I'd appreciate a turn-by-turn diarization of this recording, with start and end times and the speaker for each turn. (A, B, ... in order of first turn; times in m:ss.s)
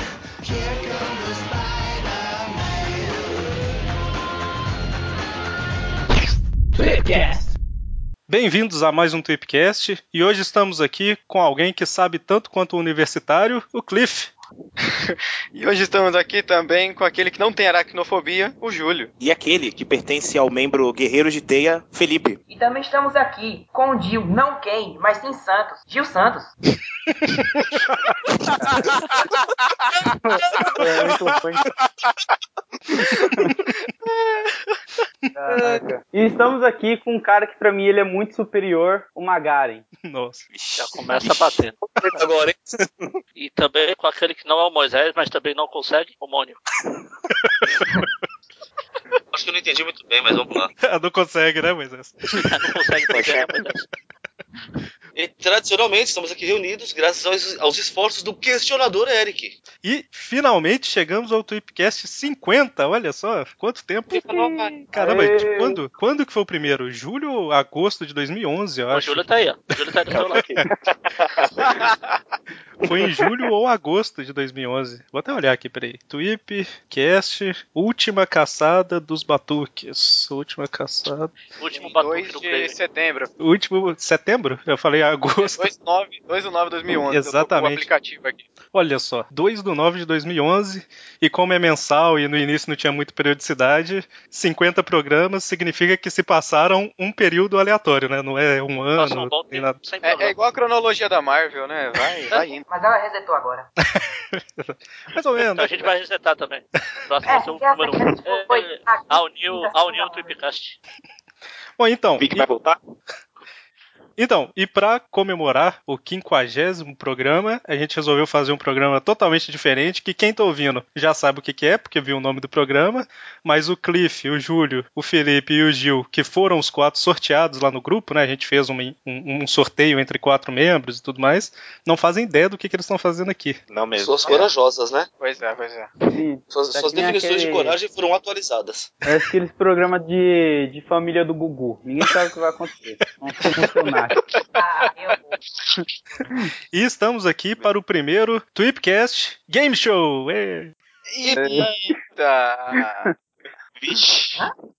0:08.3-0:14.3 A
0:14.9-0:19.1 B
0:19.2-0:22.4 C
0:22.5-0:26.5 D
0:30.3-0:31.7 E
0:33.0-0:33.5 E
0:35.4-0:39.8 E
0:40.0-0:40.5 A
0:40.5-0:41.6 C
0:40.8-0:41.8 F
0:42.1-0:42.6 G
0:43.4-0:46.6 F
0:47.4-0:48.1 A
0:49.3-0:50.7 G
0:50.8-0:52.7 A
0:52.4-0:53.8 F
0:55.2-0:59.6 G
0:59.8-1:04.3 A
1:04.2-1:05.8 E
1:04.3-1:04.7 G
1:04.9-1:09.2 A
1:08.9-1:10.6 F
1:10.1-1:11.7 C
1:12.8-1:21.3 A
1:21.6-1:22.8 F
1:21.8-1:23.3 B
1:23.4-1:25.7 A
1:25.4-1:28.5 B
1:27.1-1:27.9 A
1:28.7-1:39.8 A
1:39.0-1:40.4 F
1:40.0-1:42.6 B
1:42.7-1:43.7 D
1:43.8-1:45.9 A
1:45.6-1:50.8 F
1:47.2-1:50.4 D
1:51.8-1:52.5 A
1:52.2-1:52.8 C
1:54.2-2:13.6 A
2:13.7-2:14.4 C
2:14.0-2:15.1 G
2:15.2-2:15.9 B
2:16.1-2:17.8 E
2:16.5-2:18.9 G
2:19.1-2:24.2 E
2:24.6-2:25.4 D
2:26.7-2:30.7 A
2:31.1-2:33.1 B
2:31.3-2:32.0 E
2:33.8-2:34.4 C